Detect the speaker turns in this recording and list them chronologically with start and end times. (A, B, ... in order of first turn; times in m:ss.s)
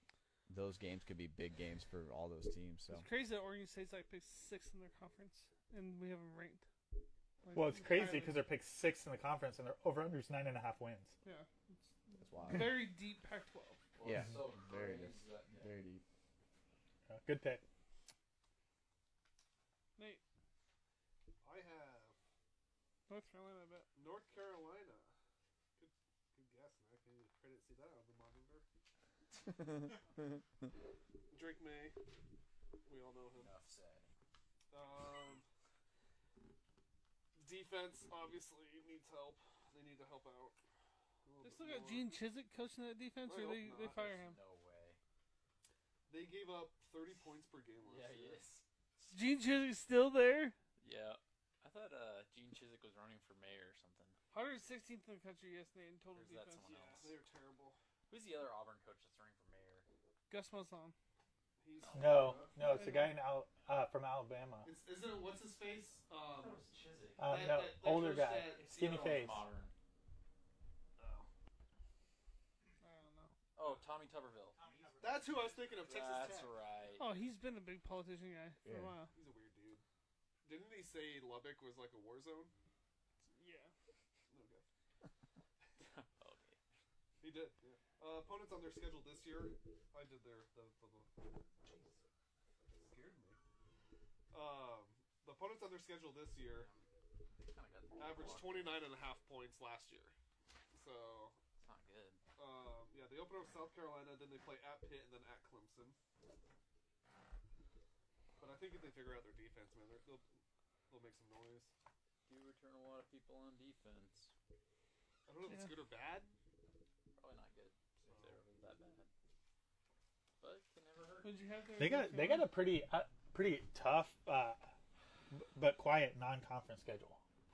0:00.5-0:03.1 A
0:02.9-0:06.6 B
0:07.4-0:08.4 B
0:07.5-0:11.2 C
0:11.2-0:13.8 B
0:12.2-0:12.9 A
0:14.0-0:15.7 D
0:14.0-0:16.0 A
0:17.1-0:17.6 C
0:20.0-0:20.2 B
0:21.4-0:22.2 E
0:23.1-0:23.9 B
0:24.0-0:25.1 E
0:25.8-0:28.7 E
0:31.3-0:32.0 E
0:32.8-0:33.6 E
0:33.3-0:34.1 D
0:34.7-0:35.4 E
0:37.4-0:40.6 E
0:41.2-0:42.1 E
0:41.4-0:44.4 B
0:43.2-0:44.0 E
0:43.8-0:45.0 D
0:46.1-0:48.4 E
0:47.8-0:48.7 D
0:49.1-0:50.6 B
0:50.8-0:54.2 D
0:54.3-0:56.7 B
0:56.2-0:57.2 D
0:56.6-0:57.8 E
0:58.1-0:59.9 D
1:00.3-1:01.0 B
1:01.6-1:02.6 E
1:01.7-1:02.4 D
1:02.0-1:04.7 C
1:02.6-1:03.2 B
1:04.6-1:06.6 E
1:06.3-1:07.3 D
1:07.2-1:09.4 C
1:07.3-1:09.0 E
1:08.5-1:09.7 D
1:11.0-1:11.3 E
1:12.8-1:13.3 B
1:13.6-1:14.6 D
1:14.6-1:15.8 C
1:15.0-1:16.6 E
1:15.7-1:17.3 D
1:17.0-1:19.1 B
1:18.6-1:19.0 A
1:19.1-1:19.8 E
1:20.4-1:22.5 E
1:23.3-1:23.7 B
1:24.3-1:24.6 E
1:25.8-1:26.6 D
1:27.2-1:32.0 E
1:32.7-1:33.4 E
1:34.3-1:36.7 E
1:36.5-1:38.9 D
1:38.0-1:40.2 E
1:40.7-1:41.4 E
1:41.6-1:42.2 D
1:42.4-1:46.0 E
1:48.4-1:51.7 E
1:52.3-1:54.3 D
1:55.3-1:56.3 E
1:55.5-1:55.8 B
1:57.2-1:59.1 D
1:58.1-1:58.4 E
2:00.4-2:01.3 D
2:01.2-2:02.6 B
2:01.8-2:04.7 C
2:05.3-2:07.2 C